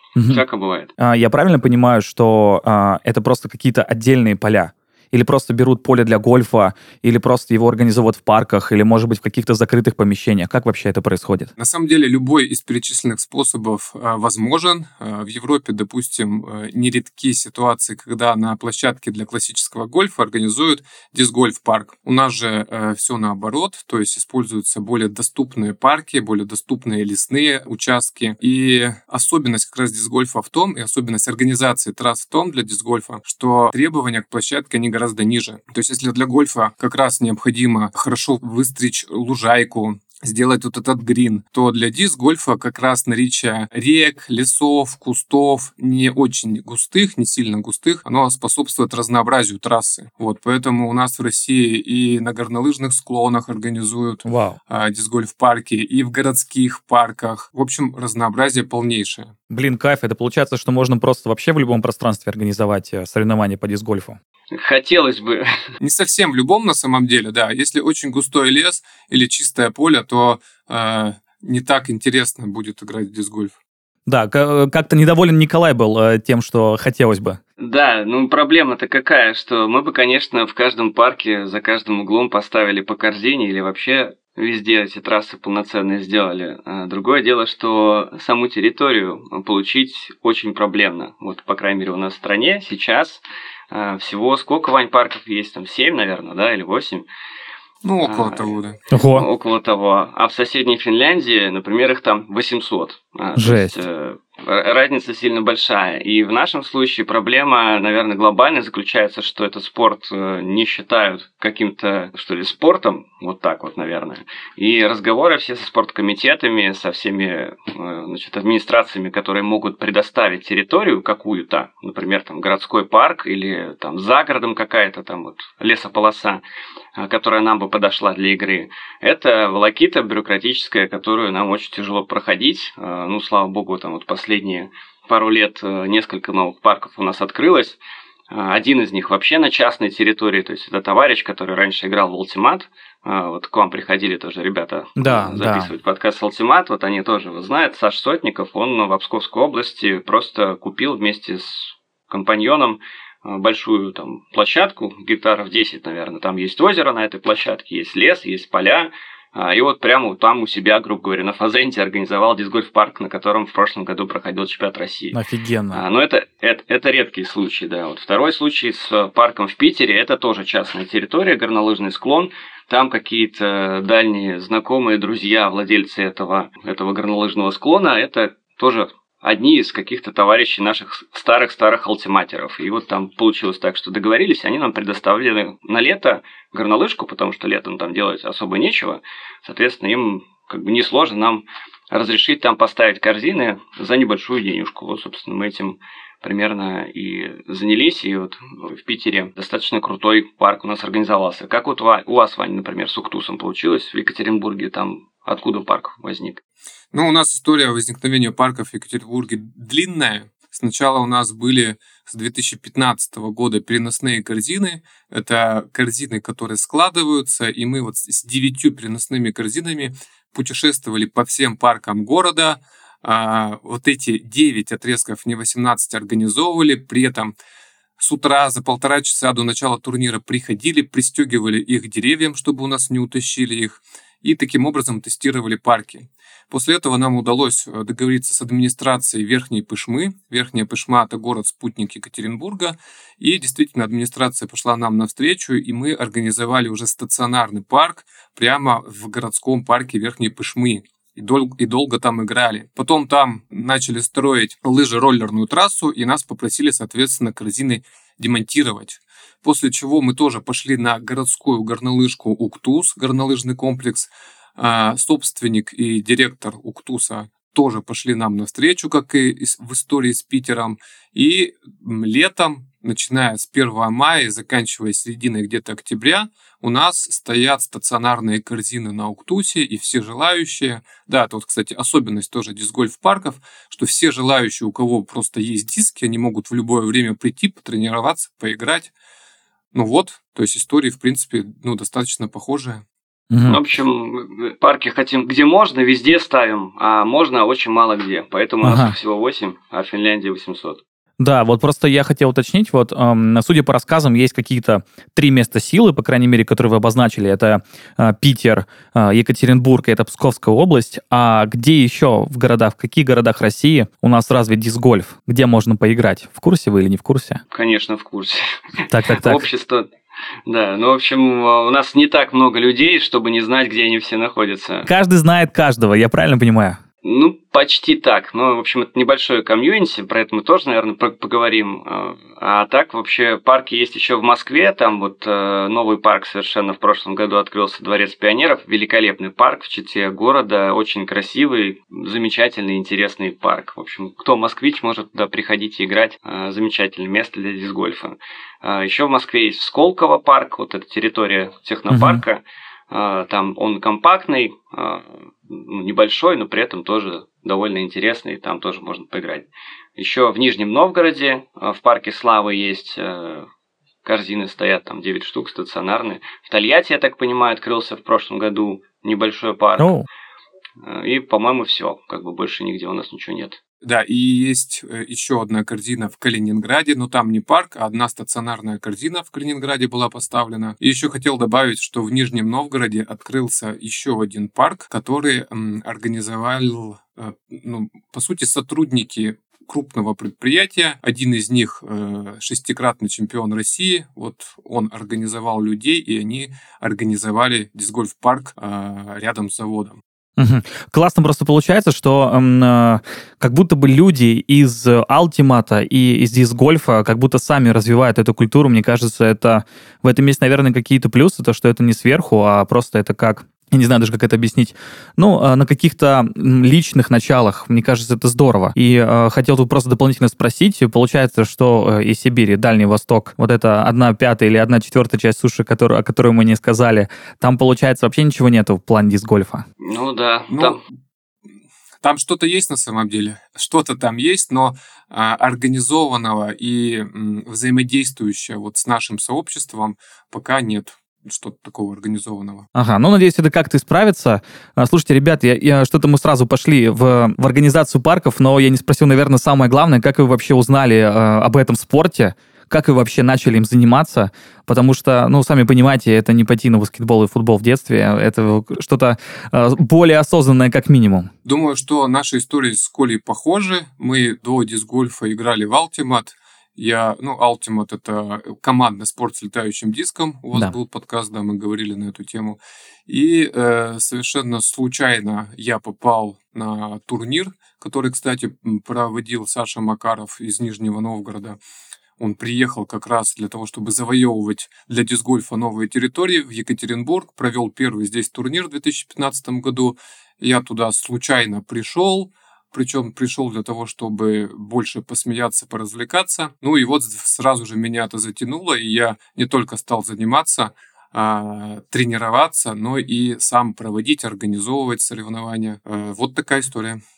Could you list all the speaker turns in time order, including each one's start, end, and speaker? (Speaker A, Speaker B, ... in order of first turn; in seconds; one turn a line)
Speaker A: 0.1-0.4
Speaker B: 0.2-0.9
Speaker A: 1.0-11.5
Speaker C: 11.6-59.3
Speaker A: 54.2-54.6
Speaker A: 59.5-64.2
Speaker B: 64.5-65.6
Speaker C: 65.8-73.5
Speaker A: 74.1-77.4
Speaker B: 77.6-97.0
Speaker C: 97.8-98.8
Speaker B: 98.0-98.5
Speaker A: 98.9-99.2
Speaker B: 99.1-126.4
Speaker A: 103.3-103.8
Speaker B: 127.0-137.8
Speaker B: 138.3-165.2
Speaker A: 145.0-145.7
Speaker A: 165.1-165.8
Speaker B: 165.7-206.4
Speaker C: 206.9-227.3
Speaker C: 228.0-288.9
Speaker C: 289.7-292.8
Speaker A: 293.3-293.6
Speaker B: 293.4-300.8
Speaker A: 298.6-298.9
Speaker A: 301.2-317.4
Speaker B: 317.5-319.9
Speaker A: 318.9-319.4
Speaker B: 320.5-324.9
Speaker A: 324.9-326.8
Speaker B: 327.0-363.5
Speaker A: 351.9-352.2
Speaker B: 364.0-369.9
Speaker A: 369.8-370.1
Speaker B: 370.8-373.6
Speaker C: 373.8-400.0
Speaker A: 400.4-429.6
Speaker B: 429.8-430.8
Speaker C: 430.5-430.8
Speaker C: 432.0-442.7
Speaker A: 442.7-461.3
Speaker C: 461.4-481.6
Speaker C: 482.2-507.0